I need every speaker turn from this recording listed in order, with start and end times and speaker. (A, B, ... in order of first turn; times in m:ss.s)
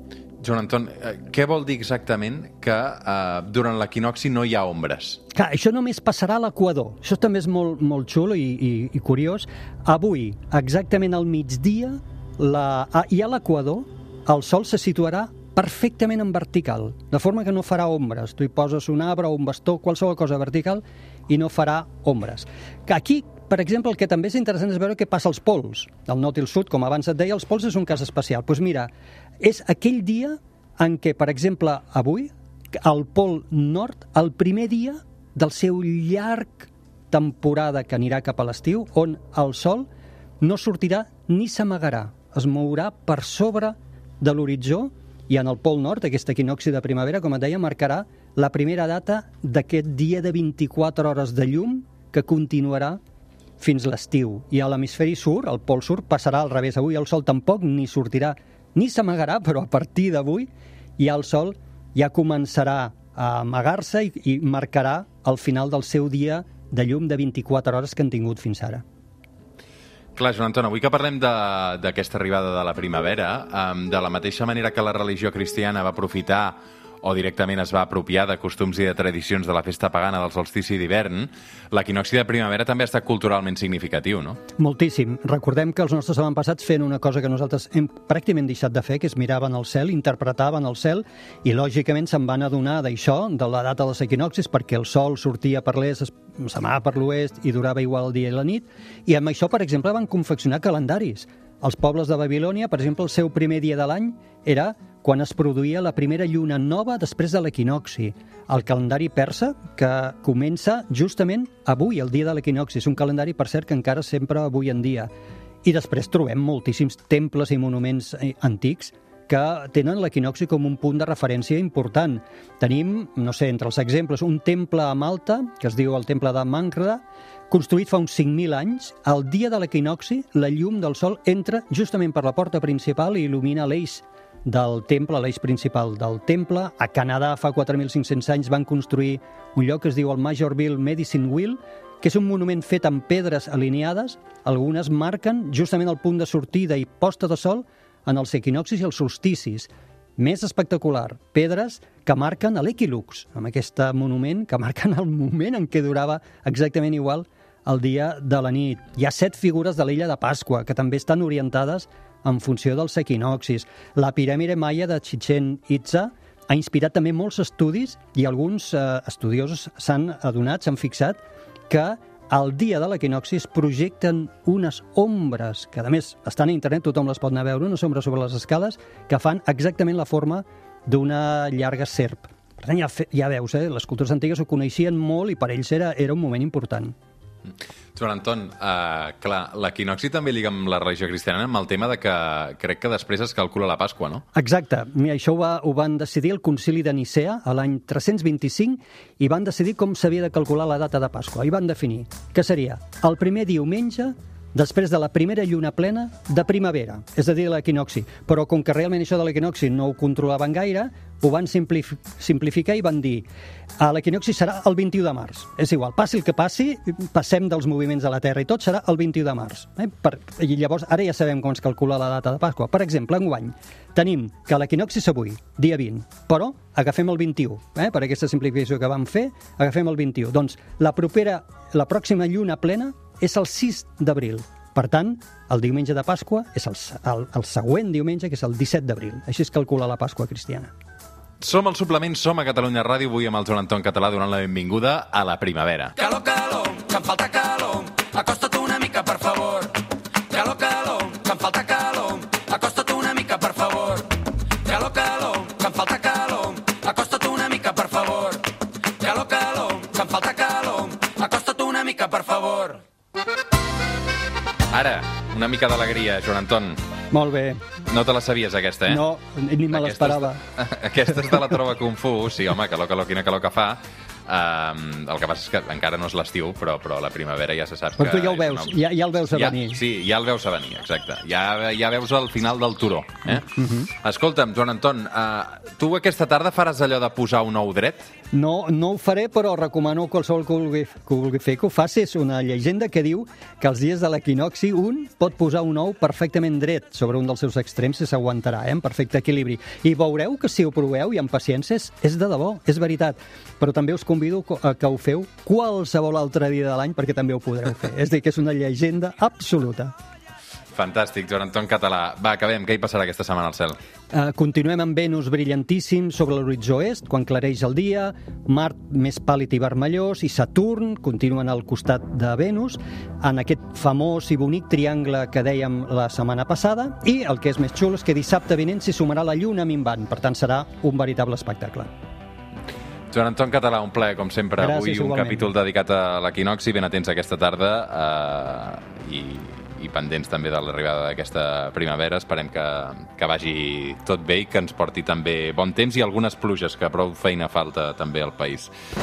0:00.4-0:05.2 A
0:05.3-0:39.9 B
0:40.4-0:53.0 B
0:53.6-1:08.8 B
1:10.2-1:24.4 A
1:24.6-1:55.1 B
1:55.6-3:06.9 B
3:07.9-3:14.2 A
3:14.3-3:33.3 B
3:33.8-4:00.7 B
4:01.4-4:06.0 A
4:06.0-4:22.8 C
4:24.7-4:26.8 A
4:27.1-4:27.6 B
4:27.9-4:29.0 A
4:28.9-4:30.4 B
4:29.7-4:38.7 A
4:38.0-4:39.8 B
4:39.3-4:48.1 A
4:43.4-4:43.9 B
4:48.3-5:09.9 B
5:10.7-5:13.8 A
5:14.1-5:31.9 B
5:33.1-5:48.7 A
5:34.6-5:35.5 B